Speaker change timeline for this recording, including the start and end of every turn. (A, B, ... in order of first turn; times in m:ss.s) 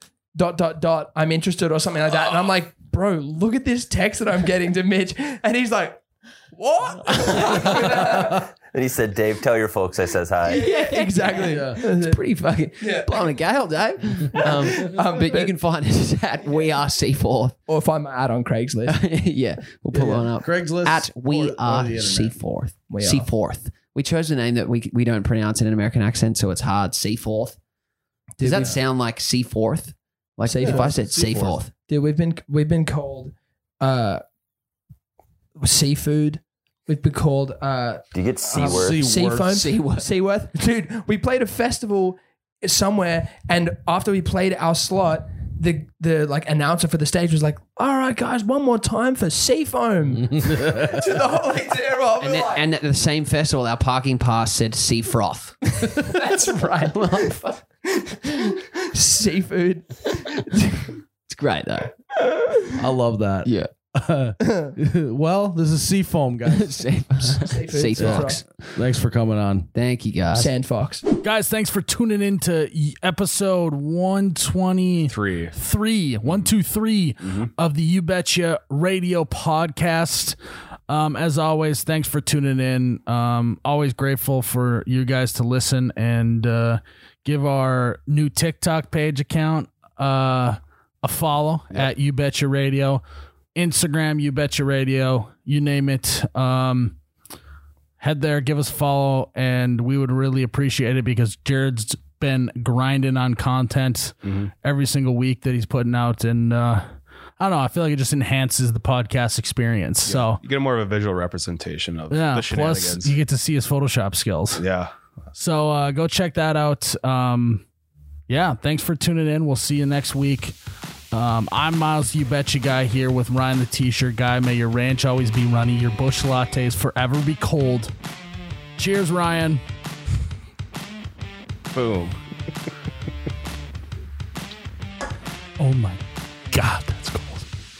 0:00.3-0:08.4 A
0:08.6-0:10.6 B
0:10.4-0:12.2 A
0:10.5-0:17.6 C
0:11.3-0:11.9 D
0:12.8-0:13.3 A
0:14.3-0:15.6 A
0:17.7-0:19.0 A
0:18.9-0:27.6 C
0:19.9-0:22.4 D
0:22.8-0:23.3 A
0:28.4-0:28.8 A
0:28.4-0:31.7 C
0:28.5-0:28.8 D
0:30.4-0:34.2 A
0:30.6-0:31.6 D
0:35.6-0:52.7 A
0:38.1-0:39.0 B
0:38.5-0:39.6 D
0:39.5-0:40.1 C
0:50.3-0:51.0 D
0:52.2-0:55.6 C
0:55.6-1:01.0 A
0:56.2-0:57.6 C
1:01.2-1:01.9 C
1:02.2-1:02.8 A
1:02.8-1:06.8 D
1:03.4-1:03.7 C
1:04.4-1:04.8 A
1:06.4-1:08.8 C
1:07.3-1:08.4 A
1:08.0-1:09.7 D
1:09.7-1:10.5 C
1:10.3-1:11.0 A
1:11.2-1:20.4 E
1:15.1-1:15.5 F
1:17.2-1:17.5 F
1:20.9-1:33.0 E
1:33.5-1:37.0 E
1:38.0-1:46.9 E
1:44.2-1:44.5 F
1:47.4-1:50.4 E
1:50.0-1:53.2 F
1:52.1-1:54.6 E
1:54.6-1:54.9 F
1:55.3-1:57.6 E
1:58.3-2:00.5 E
2:01.1-2:07.9 E
2:08.8-2:09.6 E
2:11.7-2:12.1 F
2:15.6-2:16.0 E
2:16.5-2:17.4 E